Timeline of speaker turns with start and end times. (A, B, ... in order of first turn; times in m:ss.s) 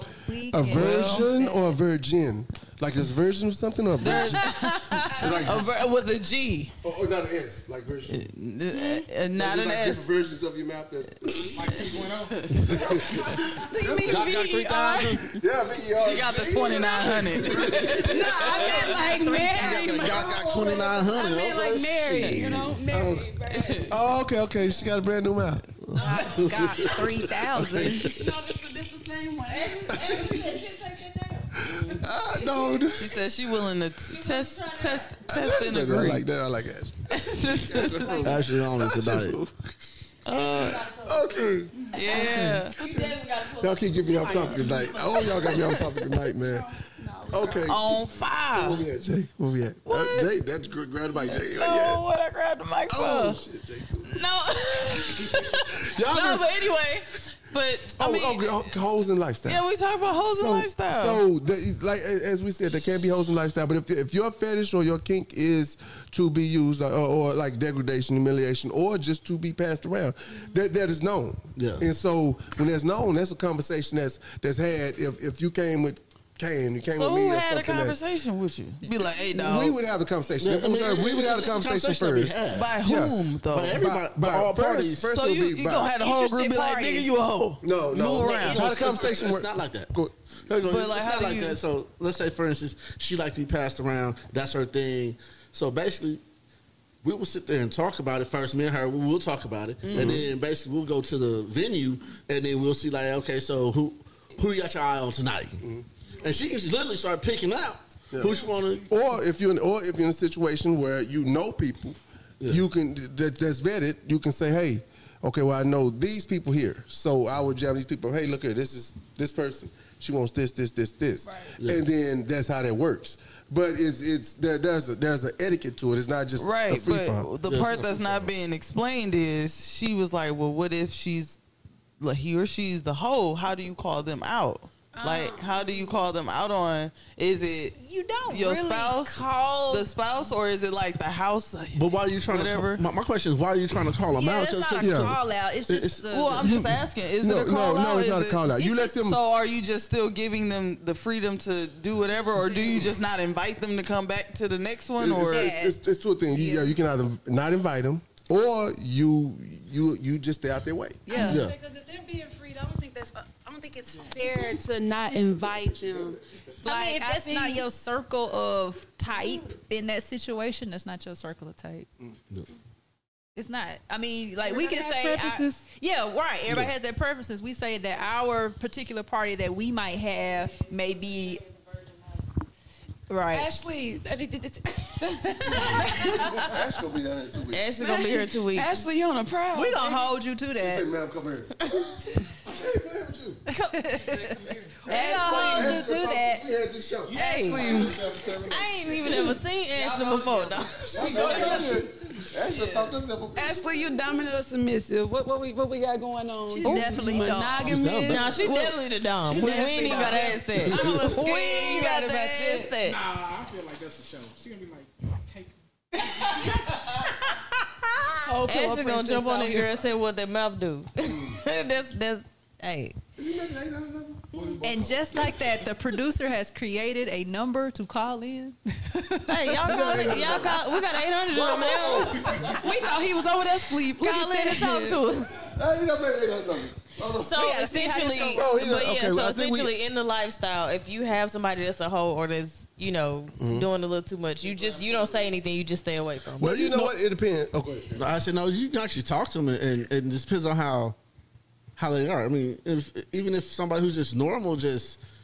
0:00.2-0:01.7 A
0:00.5-0:05.7 B
0:00.7-0:01.3 C
0:04.0-0:06.7 C
0:04.4-0:05.3 A
0:06.8-0:08.2 B
0:08.1-0:10.1 C
0:09.3-0:11.8 B
0:11.4-0:12.9 D
0:12.6-0:14.3 B
0:12.9-0:15.1 E
0:14.0-0:15.4 F
0:15.3-0:18.3 B
0:16.0-0:18.8 C
0:18.0-0:24.0 E
0:18.2-0:20.2 A
0:19.6-0:23.3 F
0:20.3-0:20.8 B
0:23.5-0:23.9 C
0:23.9-0:25.6 B
0:25.9-0:28.3 F
0:26.0-0:28.1 A
0:26.0-0:26.5 G
0:27.5-0:27.9 B
0:28.1-0:30.4 E
0:29.5-0:32.8 G
0:29.9-0:30.3 B
0:31.6-0:33.2 B
0:31.7-0:32.0 C
0:32.9-0:36.2 C
0:34.1-0:35.3 G
0:35.3-0:39.7 B
0:37.1-0:38.2 C
0:37.9-0:38.3 E
0:38.2-0:39.4 F
0:40.2-0:40.8 C
0:40.2-0:45.9 G
0:41.0-0:43.0 B
0:41.9-0:42.7 C
0:42.8-0:43.1 E
0:43.6-0:46.7 B
0:44.2-0:45.6 E
0:46.4-0:48.1 E
0:47.3-0:52.0 B
0:47.6-0:48.8 C
0:49.8-0:50.3 C
0:51.2-0:53.4 C
0:52.9-0:54.2 B
0:54.0-0:58.7 C
0:55.0-0:56.6 B
0:58.0-0:59.6 B
0:59.4-1:01.2 C
1:00.2-1:18.0 B
1:11.6-1:11.8 F
1:16.9-1:19.8 C
1:18.8-1:25.9 B
1:20.4-1:22.7 F
1:22.5-1:23.9 C
1:23.5-1:25.2 F
1:25.1-1:28.9 C
1:26.0-1:27.1 A
1:27.6-1:30.1 B
1:28.4-1:28.9 A
1:28.5-1:29.9 F
1:30.5-1:36.2 F
1:30.6-1:31.6 C
1:37.0-1:45.6 F
1:39.8-1:40.2 C
1:39.9-1:40.2 B
1:45.6-1:45.8 B
1:46.2-1:48.9 F
1:48.1-2:07.3 B
2:06.4-2:11.4 C
2:07.4-2:08.3 F
2:12.0-2:17.8 C
2:15.0-2:15.9 E
2:17.8-2:19.9 A
2:18.3-2:22.8 C
2:21.7-2:25.2 F
2:24.1-2:26.5 A
2:24.8-2:25.2 B
2:25.7-2:26.1 F
2:26.1-2:35.5 C
2:26.4-2:29.2 B
2:32.5-2:32.8 A
2:35.0-2:41.2 B
2:35.2-2:36.7 A
2:41.1-2:41.4 A
2:41.1-2:47.6 E
2:41.2-2:41.6 F
2:46.6-2:51.9 A
2:53.4-3:01.5 A
2:54.4-2:55.6 E
3:03.1-3:03.5 A
3:03.3-3:06.5 E
3:05.5-3:06.4 A
3:06.3-3:07.7 B
3:07.5-3:08.8 G
3:07.8-3:10.1 E
3:09.5-3:10.9 A
3:10.5-3:11.7 B
3:12.4-3:13.4 B
3:13.5-3:16.4 A
3:14.0-3:15.8 E
3:14.9-3:17.2 B
3:17.1-3:19.2 D
3:17.1-3:21.7 G
3:17.2-3:18.0 E
3:19.8-3:20.5 C
3:20.9-3:21.8 E
3:20.9-3:23.7 B
3:22.4-3:22.9 C
3:23.3-3:32.8 E
3:26.5-3:28.0 A
3:27.6-3:28.3 F
3:28.1-3:33.0 G
3:29.3-3:30.5 A
3:30.6-3:31.1 F
3:32.8-3:35.5 D
3:36.2-3:36.6 E
3:38.2-3:39.8 E
3:38.4-3:43.0 G
3:41.0-3:41.4 B
3:43.2-3:45.5 B
3:44.6-3:50.4 A
3:49.3-3:52.6 G
3:49.6-3:50.6 B
3:51.3-3:52.6 B
3:51.9-3:55.0 E
3:53.8-3:55.5 G
3:55.4-3:57.6 B
3:57.2-4:06.7 G
3:57.3-3:58.5 A
3:58.2-3:59.7 B
4:03.4-4:03.7 B
4:04.5-4:05.1 C
4:06.4-4:08.0 B
4:06.6-4:06.9 F
4:07.9-4:11.0 F
4:11.8-4:15.0 F